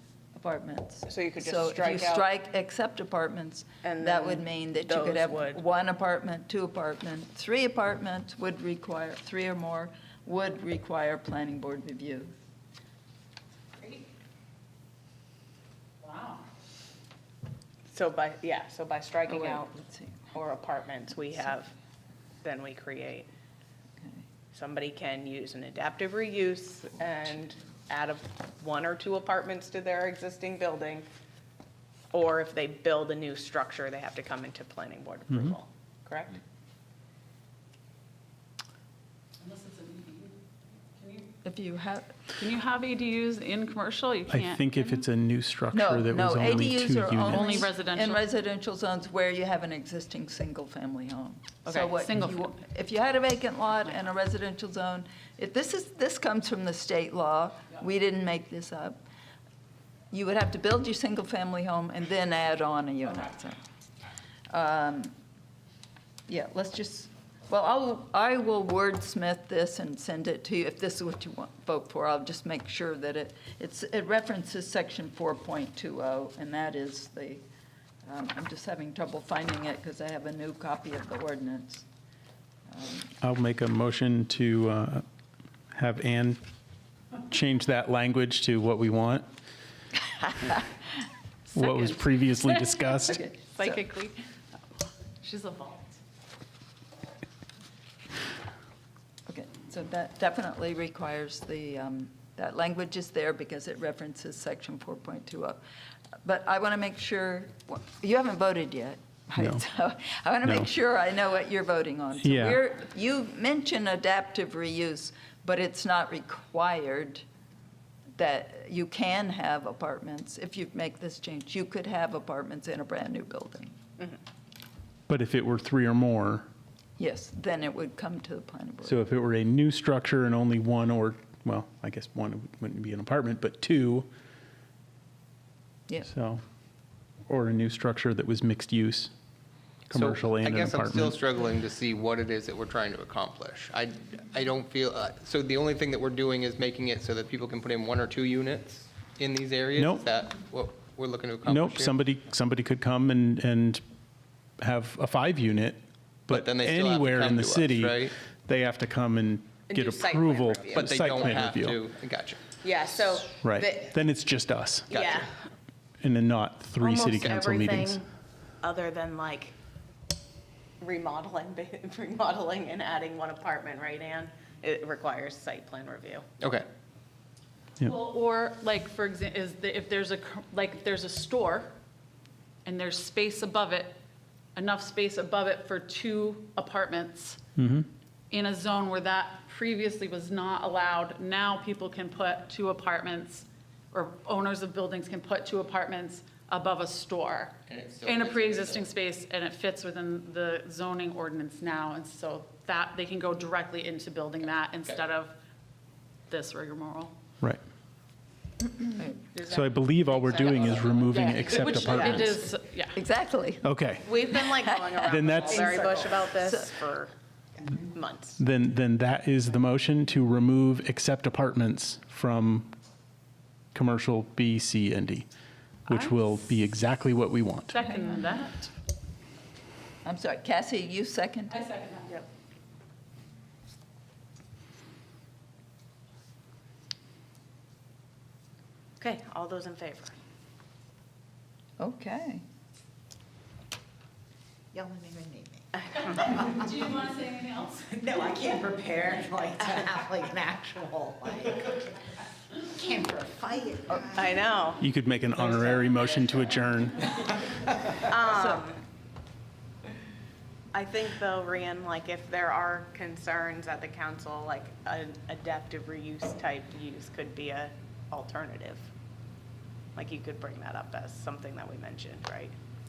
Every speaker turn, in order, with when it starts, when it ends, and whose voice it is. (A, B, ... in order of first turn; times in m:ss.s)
0:00.3-0:12.3 A
0:01.0-0:02.3 B
0:03.8-0:05.6 B
0:16.0-0:16.5 C
0:17.9-0:19.7 B
0:19.3-0:20.3 A
0:20.3-0:21.7 B
0:22.4-0:23.3 B
0:24.5-0:31.1 B
0:32.1-0:36.4 B
0:35.3-0:35.6 D
0:39.4-0:40.4 C
0:41.0-0:41.3 C
0:41.4-0:42.2 A
0:42.4-0:45.0 C
0:44.3-0:47.6 D
0:45.7-0:59.0 A
0:47.3-0:48.2 C
0:51.6-0:52.5 C
1:00.1-1:03.6 A
1:04.5-1:05.1 A
1:06.3-1:17.4 A
1:18.0-1:21.8 A
1:22.7-1:23.1 A
1:23.2-1:25.0 D
1:25.7-1:26.4 D
1:27.3-1:29.3 D
1:31.5-1:33.2 D
1:33.2-1:33.7 A
1:33.5-1:34.1 B
1:35.2-1:36.0 C
1:39.3-1:45.6 A
1:46.2-1:57.2 A
1:49.4-1:49.6 D
1:52.2-1:52.6 D
1:58.2-2:03.8 A
2:05.1-2:06.5 D
2:07.0-2:09.0 A
2:08.8-2:14.1 D
2:16.0-2:16.4 D
2:17.3-2:19.1 D
2:19.9-2:21.2 D
2:19.9-2:31.9 E
2:29.8-2:30.0 D
2:31.4-2:33.8 D
2:34.6-2:41.8 D
2:36.3-2:38.1 E
2:39.7-2:41.5 B
2:40.7-2:42.4 E
2:42.6-2:43.9 B
2:43.4-2:44.9 D
2:44.9-2:45.2 E
2:44.9-2:45.4 B
2:46.0-2:48.0 D
2:46.8-2:48.1 B
2:48.6-2:49.5 B
2:50.8-2:56.2 B
2:56.4-2:56.6 E
2:57.8-3:01.7 C
3:02.6-3:04.0 C
3:04.5-3:07.4 C
3:07.6-3:07.9 D
3:08.3-3:25.3 C
3:17.7-3:18.9 E
3:26.3-3:27.1 C
3:29.3-3:32.3 B
3:29.4-3:32.4 D
3:30.4-3:30.9 E
3:31.5-3:32.2 E
3:31.7-3:33.0 C
3:32.9-3:33.6 A
3:33.6-3:34.0 D
3:34.0-3:37.1 B
3:34.7-3:36.7 A
3:35.0-3:35.7 D
3:37.8-3:38.4 B
3:38.4-3:42.7 D
3:43.7-3:45.3 D
3:45.9-3:47.9 D
3:45.9-3:46.3 C
3:47.7-3:48.7 C
3:50.0-3:51.7 A
3:51.5-3:52.1 C
3:59.0-4:00.1 B
4:01.8-4:02.4 A
4:04.7-4:05.6 F
4:05.8-4:06.4 B
4:06.2-4:07.1 F
4:06.6-4:07.8 C
4:07.9-4:12.0 F
4:12.6-4:14.6 F
4:14.1-4:14.8 B
4:14.8-4:17.1 D
4:18.0-4:18.8 B
4:20.7-4:28.9 B
4:29.9-4:32.5 B